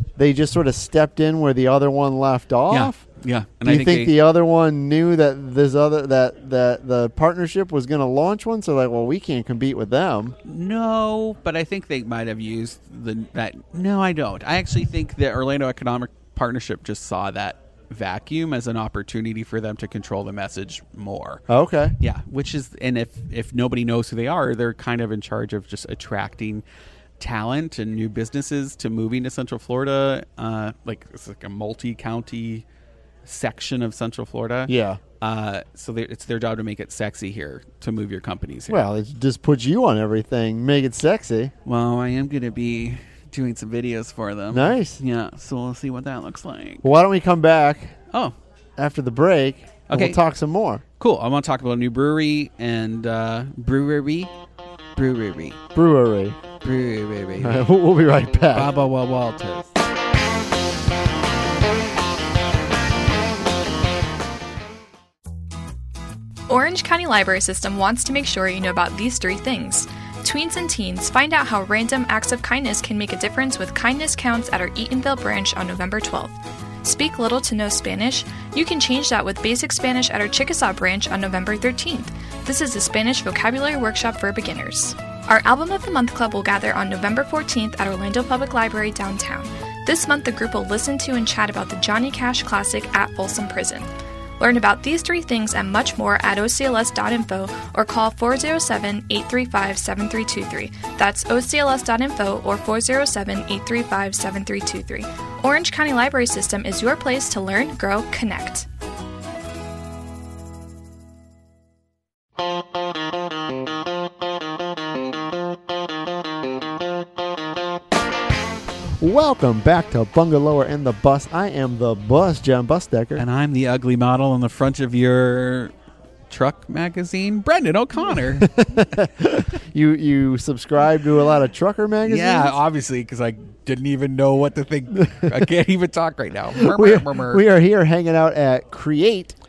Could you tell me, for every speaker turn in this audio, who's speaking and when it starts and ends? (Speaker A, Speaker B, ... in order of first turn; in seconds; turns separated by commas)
Speaker A: 0.2-3.0, Speaker B: 2.7-4.2, Speaker A: 3.6-10.3, Speaker B: 10.4-21.4, Speaker A: 21.5-21.9, Speaker B: 22.0-26.6, Speaker B: 27.2-32.6, Speaker B: 33.2-38.8, Speaker A: 34.7-35.0, Speaker A: 38.7-41.5, Speaker B: 41.6-46.8, Speaker A: 44.5-45.0, Speaker A: 46.8-47.9, Speaker B: 48.1-48.4, Speaker A: 48.8-50.8, Speaker B: 49.9-50.2, Speaker B: 51.0-54.3, Speaker B: 55.0-55.6, Speaker A: 55.7-56.4, Speaker B: 56.6-57.7, Speaker A: 57.4-58.7, Speaker B: 58.5-59.7, Speaker C: 66.5-93.9, Speaker C: 94.4-108.7, Speaker A: 119.0-123.2, Speaker B: 123.2-125.7, Speaker B: 126.3-128.5, Speaker A: 128.4-132.6, Speaker B: 132.0-137.4, Speaker A: 135.0-135.3, Speaker A: 136.5-139.3